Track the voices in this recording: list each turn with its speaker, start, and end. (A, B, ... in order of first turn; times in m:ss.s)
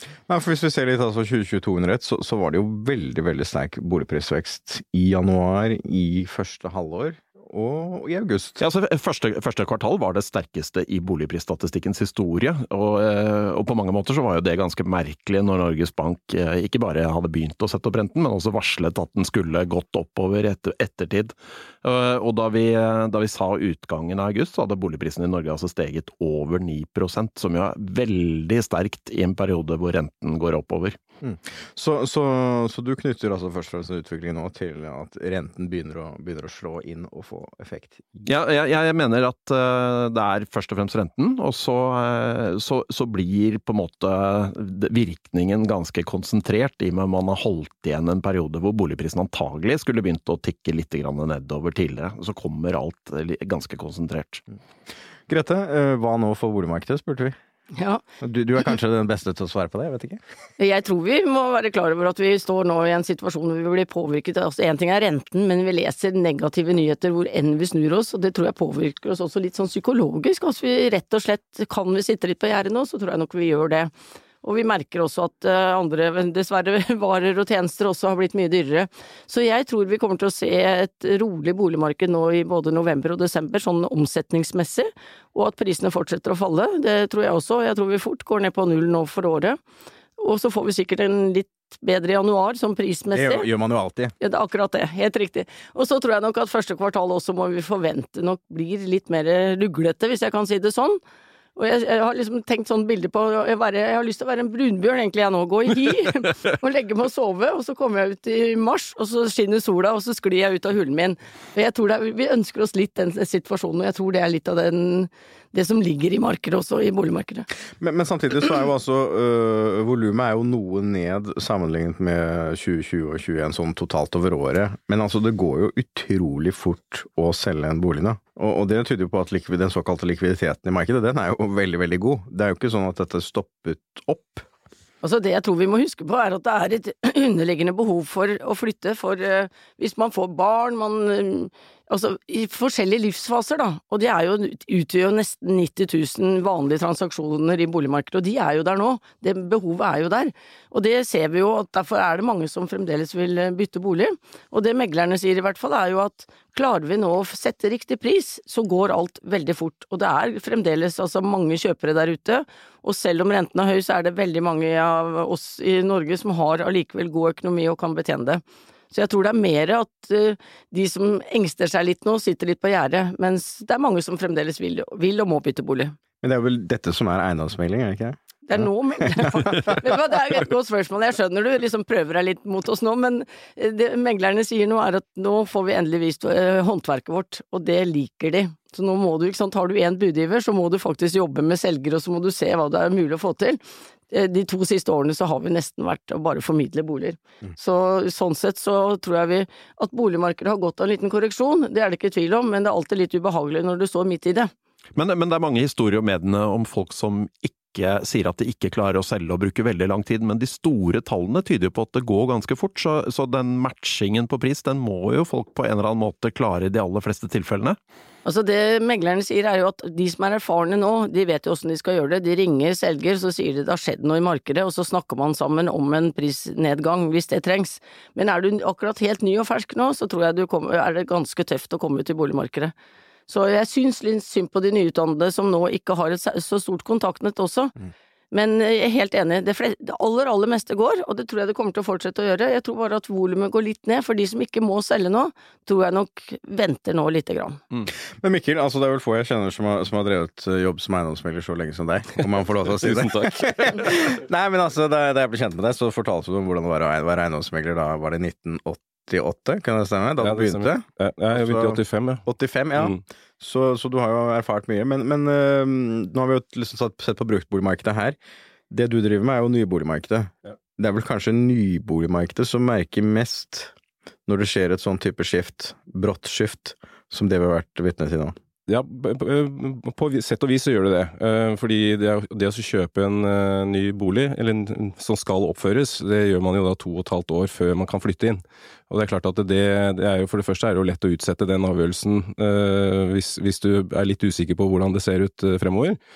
0:00.3-0:08.6 A
0:08.6-0:31.0 B
0:31.2-0:38.2 A
0:38.2-0:54.4 B
0:55.3-0:57.4 A
0:57.8-0:58.0 C
0:58.2-1:00.2 A
1:00.6-1:13.9 C
1:14.4-1:29.6 C
1:30.2-1:33.5 C
1:33.1-1:34.1 A
1:34.2-1:41.0 C
1:41.6-1:57.5 C
1:57.8-2:14.4 A
2:15.0-2:56.0 C
2:56.2-2:59.7 A
2:58.4-3:13.6 C
3:14.1-3:24.5 C
3:24.9-3:37.8 B
3:38.2-3:52.7 C
3:53.3-3:57.7 C
3:58.3-4:07.6 C
4:07.9-4:28.2 A
4:12.7-4:14.1 D
4:20.2-4:22.2 D
4:22.8-4:23.0 D
4:28.7-4:33.7 A
4:34.3-4:38.4 A
4:38.7-4:56.0 D